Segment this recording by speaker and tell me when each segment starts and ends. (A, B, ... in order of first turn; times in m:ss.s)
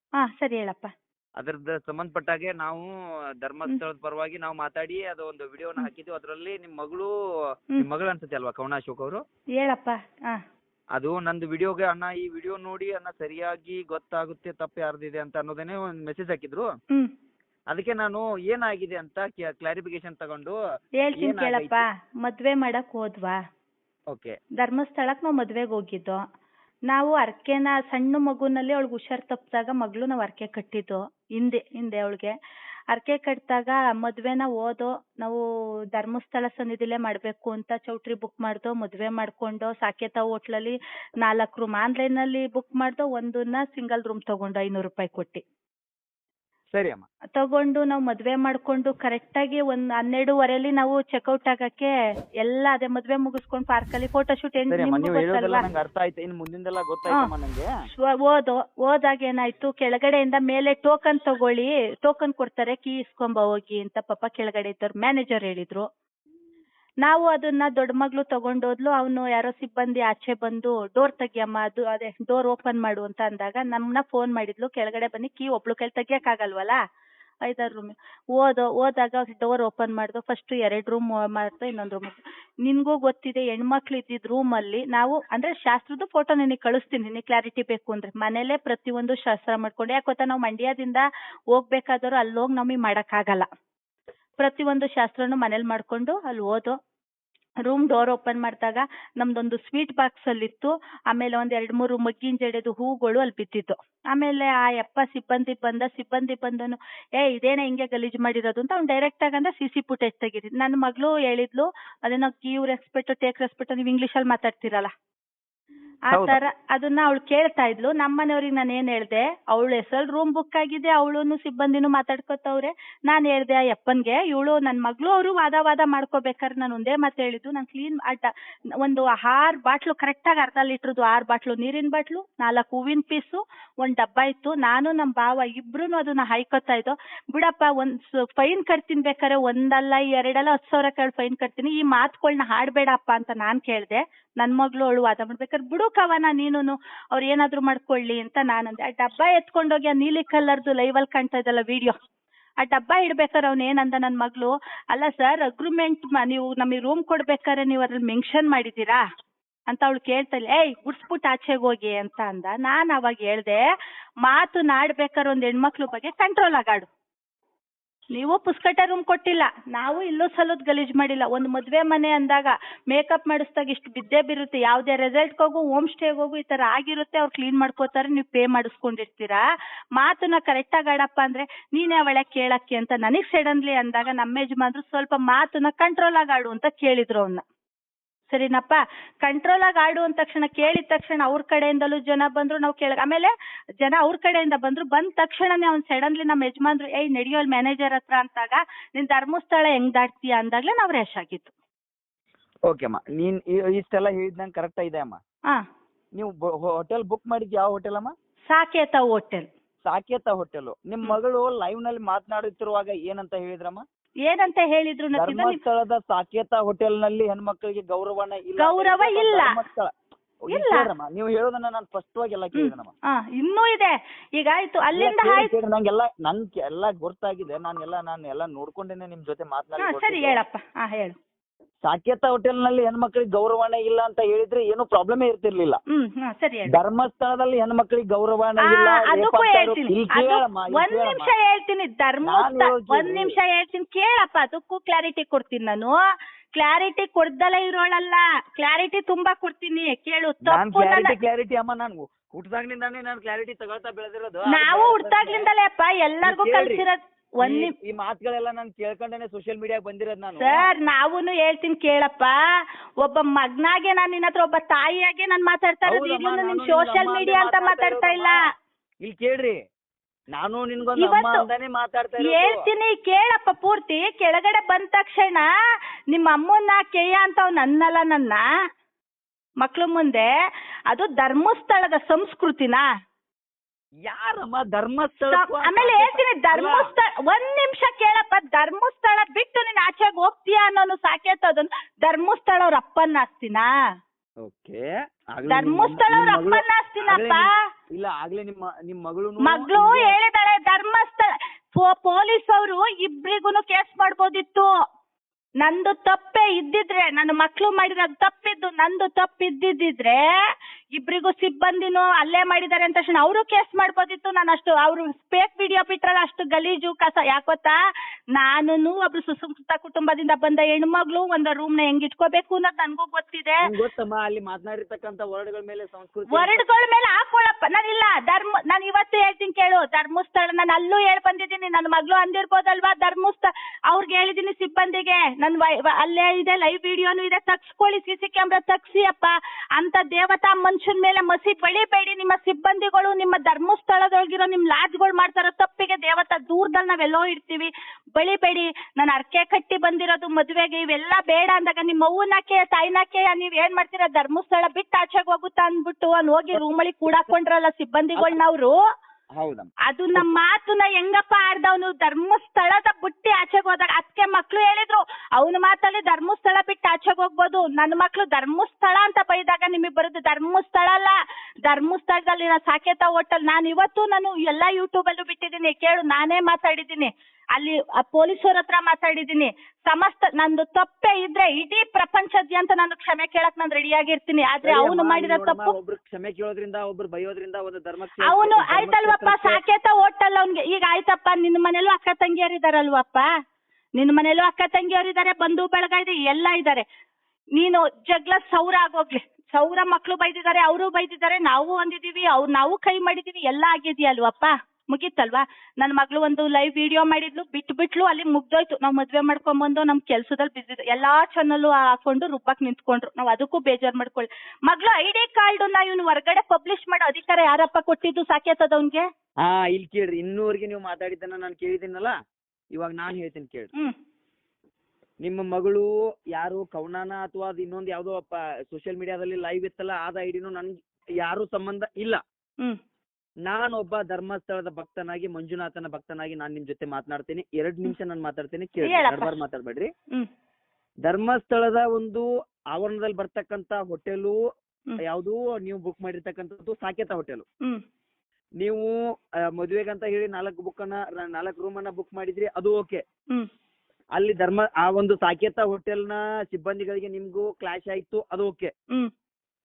0:00.2-0:00.9 A
0:01.4-0:02.9 B
0:03.4-0:07.1 B
0:07.8-0:09.2 B
0:09.6-0:10.4 A
0:11.0-0:16.7 B
0:17.7-0:20.6 B
0:21.0-0:23.4 A
0:21.2-0:21.8 B
0:24.6-0:26.2 A
0:26.9-0:32.3 A
0:32.9-0:35.4 A
0:35.9-0:45.4 A
0:46.7-0:47.0 B
0:47.4-0:55.6 A
0:54.7-0:57.7 B
0:58.0-1:05.8 A
1:07.0-1:16.8 A
1:17.5-1:33.5 A
1:34.4-1:36.8 A
1:37.7-1:54.9 A
1:56.1-1:56.4 B
1:56.1-2:08.3 A
2:08.8-2:32.0 A
2:32.6-2:39.0 A
2:39.7-2:43.6 A
2:44.2-2:46.9 A
2:48.1-2:59.4 A
3:00.0-3:07.4 A
3:08.3-3:21.5 A
3:22.7-3:25.2 B
3:26.2-3:28.1 B
3:28.5-3:29.5 A
3:29.9-3:33.8 B
3:34.2-3:35.6 A
3:35.2-3:39.9 B
3:38.6-3:39.5 A
3:40.5-3:42.9 B
3:40.5-3:40.9 A
3:42.6-3:45.5 A
3:45.0-3:50.4 B
3:49.8-3:51.2 A
3:51.8-3:55.8 B
3:55.9-3:56.8 A
3:56.7-4:01.3 B
3:58.7-4:06.0 A
4:02.2-4:03.3 B
4:06.6-4:11.1 A
4:10.5-4:15.5 B
4:14.5-4:17.7 A
4:16.2-4:16.8 B
4:17.4-4:20.6 B
4:20.4-4:22.4 A
4:23.0-4:28.4 A
4:25.8-4:28.4 B
4:29.0-4:29.6 B
4:30.3-4:32.6 B
4:31.0-4:31.4 A
4:32.2-4:35.4 A
4:36.1-4:38.4 A
4:39.6-4:40.3 A
4:40.9-4:42.9 A
4:44.1-4:46.9 B
4:45.3-4:53.7 A
4:54.4-5:00.2 B
4:55.5-4:57.5 A
4:59.5-5:04.7 A
5:05.6-5:10.2 A
5:10.9-5:17.8 A
5:18.3-5:23.6 A
5:23.7-5:26.6 B
5:26.3-5:58.8 A
5:59.4-6:00.3 B
5:59.9-6:11.2 A
6:11.7-6:25.7 A
6:24.6-6:29.6 B
6:28.3-6:33.3 A
6:34.0-6:36.9 A
6:37.6-6:59.0 A
6:59.4-7:02.1 B
7:02.7-7:03.7 B
7:05.2-7:12.2 B
7:13.4-7:19.9 B
7:18.8-7:19.3 A
7:21.0-7:24.4 B
7:25.1-7:27.4 B
7:28.6-7:28.9 B
7:29.5-7:33.0 B
7:34.2-7:38.7 B